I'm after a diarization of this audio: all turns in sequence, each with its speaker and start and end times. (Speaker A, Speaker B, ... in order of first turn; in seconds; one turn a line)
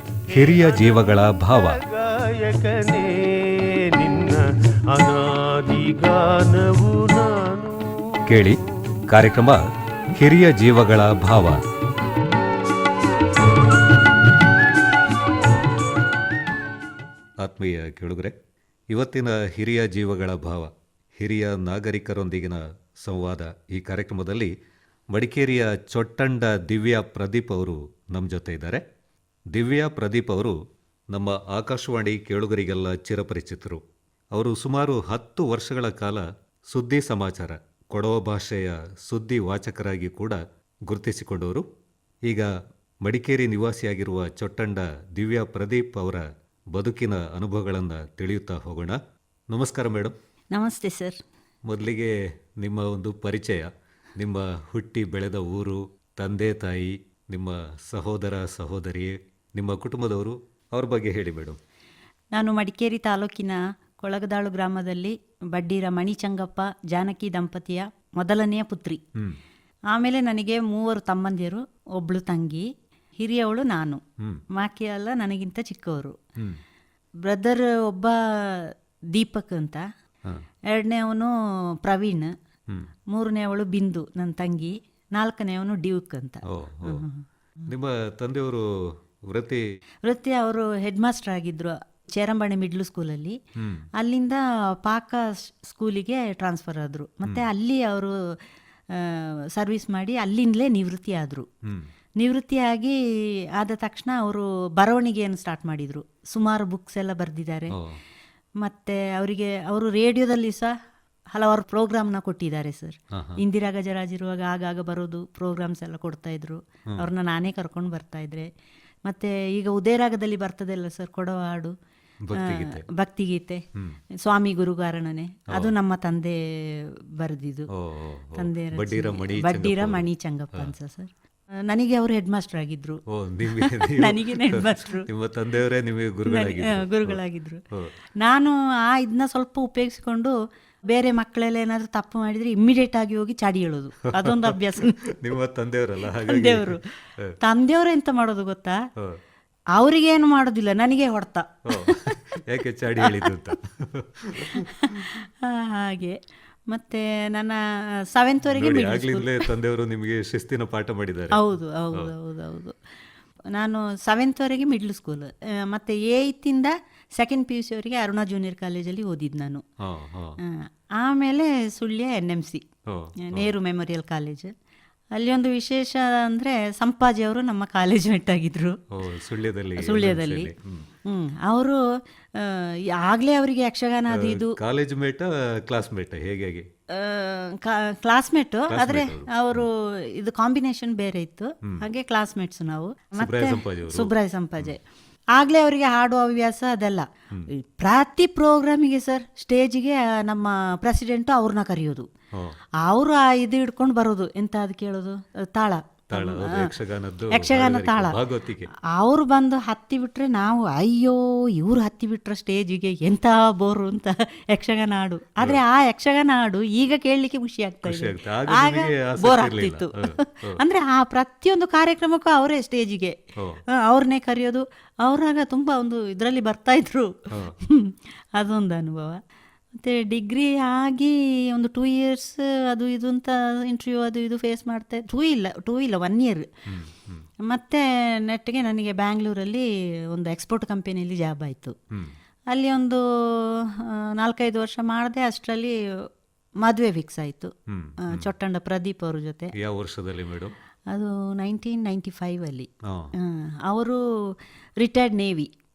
Speaker A: 0.3-8.5
Speaker B: 0.3-1.8
Speaker B: 8.3-11.6
Speaker B: 17.4-18.4
Speaker B: 18.9-24.5
Speaker B: 25.1-28.8
Speaker B: 29.5-30.6
Speaker B: 31.1-41.7
Speaker B: 42.2-50.1
Speaker C: 50.5-51.2
Speaker B: 51.6-61.6
Speaker C: 62.3-69.0
Speaker C: 69.9-72.7
Speaker C: 73.2-76.2
Speaker B: 74.2-74.4
Speaker C: 77.2-79.8
Speaker C: 80.7-82.3
Speaker C: 83.1-87.2
Speaker B: 86.5-87.0
Speaker B: 87.7-89.7
Speaker C: 90.0-93.4
Speaker B: 93.6-93.9
Speaker C: 94.0-98.4
Speaker C: 98.9-101.5
Speaker B: 101.6-101.9
Speaker C: 102.2-103.0
Speaker C: 103.5-107.7
Speaker B: 107.7-108.0
Speaker C: 108.6-110.7
Speaker C: 111.3-118.5
Speaker B: 113.1-113.4
Speaker C: 119.0-121.7
Speaker B: 122.2-122.8
Speaker C: 122.3-127.7
Speaker B: 123.7-124.0
Speaker B: 127.7-130.7
Speaker C: 128.3-131.1
Speaker C: 131.7-135.1
Speaker B: 133.1-137.2
Speaker C: 136.2-137.6
Speaker C: 138.2-140.3
Speaker C: 140.9-145.1
Speaker B: 144.1-147.3
Speaker C: 146.1-146.9
Speaker C: 147.4-148.8
Speaker C: 149.7-152.4
Speaker B: 151.7-155.1
Speaker C: 153.0-153.3
Speaker C: 154.4-156.2
Speaker C: 156.7-159.5
Speaker B: 158.5-162.1
Speaker C: 161.3-162.8
Speaker C: 163.5-169.6
Speaker B: 169.8-170.4
Speaker C: 170.4-172.6
Speaker B: 172.8-173.5
Speaker C: 173.2-174.5
Speaker C: 175.1-178.8
Speaker B: 178.9-180.9
Speaker C: 179.8-180.5
Speaker C: 181.0-181.8
Speaker C: 182.3-184.6
Speaker B: 184.1-186.7
Speaker C: 186.9-194.8
Speaker B: 188.7-189.7
Speaker B: 193.2-194.8
Speaker C: 195.3-202.1
Speaker C: 202.8-206.7
Speaker B: 206.1-208.7
Speaker C: 207.3-208.2
Speaker C: 208.9-223.2
Speaker B: 217.8-220.6
Speaker B: 223.4-223.6
Speaker C: 223.7-229.2
Speaker B: 227.3-227.6
Speaker C: 229.7-236.5
Speaker B: 236.7-237.2
Speaker C: 237.4-241.7
Speaker C: 242.5-246.1
Speaker C: 246.6-249.5
Speaker B: 247.7-248.3
Speaker B: 249.5-250.5
Speaker C: 250.9-255.5
Speaker B: 252.8-253.1